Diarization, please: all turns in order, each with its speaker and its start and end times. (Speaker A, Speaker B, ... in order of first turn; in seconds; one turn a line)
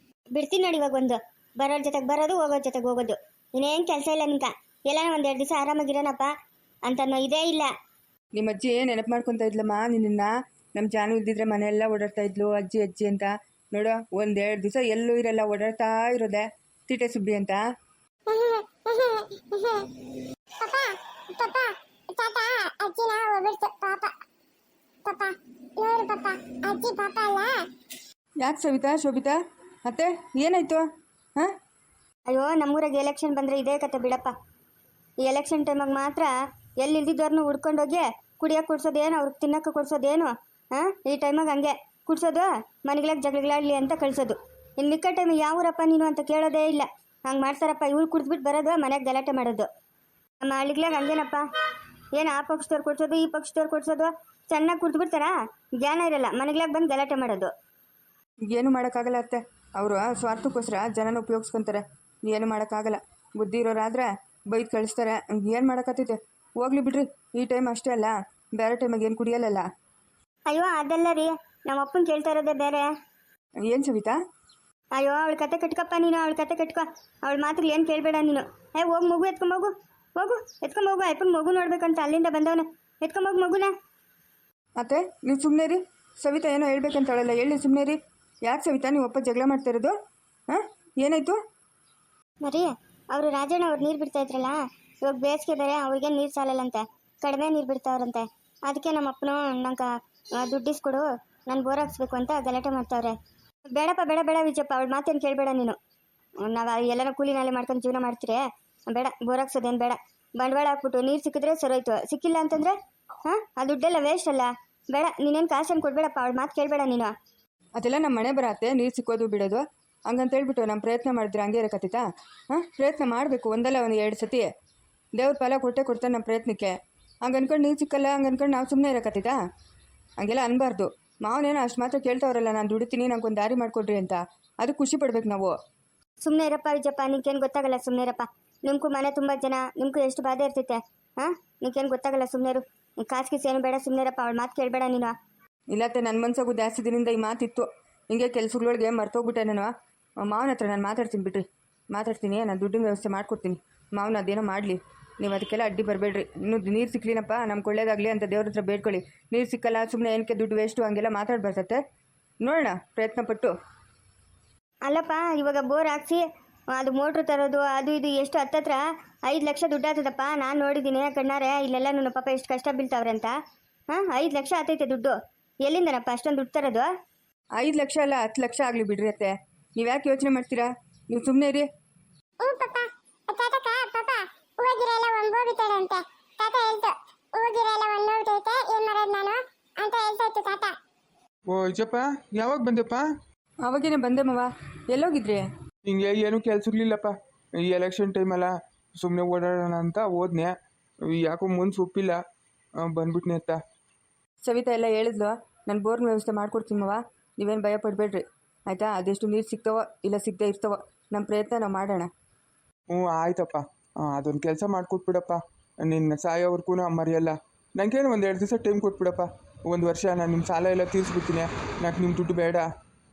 Speaker A: 0.3-6.3
Speaker A: 6.9-7.7
Speaker B: 8.3-17.6
Speaker C: 18.3-24.1
Speaker C: 25.1-27.5
Speaker B: 28.4-31.5
Speaker A: 32.3-34.3
Speaker A: 35.2-49.7
Speaker A: 50.4-51.4
Speaker A: 52.2-57.5
Speaker B: 58.5-69.7
Speaker A: 70.5-72.9
Speaker B: 73.7-74.2
Speaker A: 75.0-83.7
Speaker B: 84.8-90.0
Speaker B: 90.5-91.4
Speaker A: 92.4-103.2
Speaker A: 103.7-105.8
Speaker A: 106.4-117.1
Speaker B: 117.8-124.5
Speaker B: 125.2-129.4
Speaker B: 130.2-135.6
Speaker A: 136.2-145.1
Speaker B: 145.7-161.8
Speaker B: 162.4-163.6
Speaker A: 164.8-173.3
Speaker A: 173.9-176.9
Speaker B: 177.6-181.7
Speaker C: 182.4-190.8
Speaker D: 191.5-193.1
Speaker B: 193.6-195.5
Speaker D: 195.8-200.5
Speaker D: 201.1-202.2
Speaker D: 202.8-203.6
Speaker B: 204.4-212.1
Speaker D: 212.9-222.7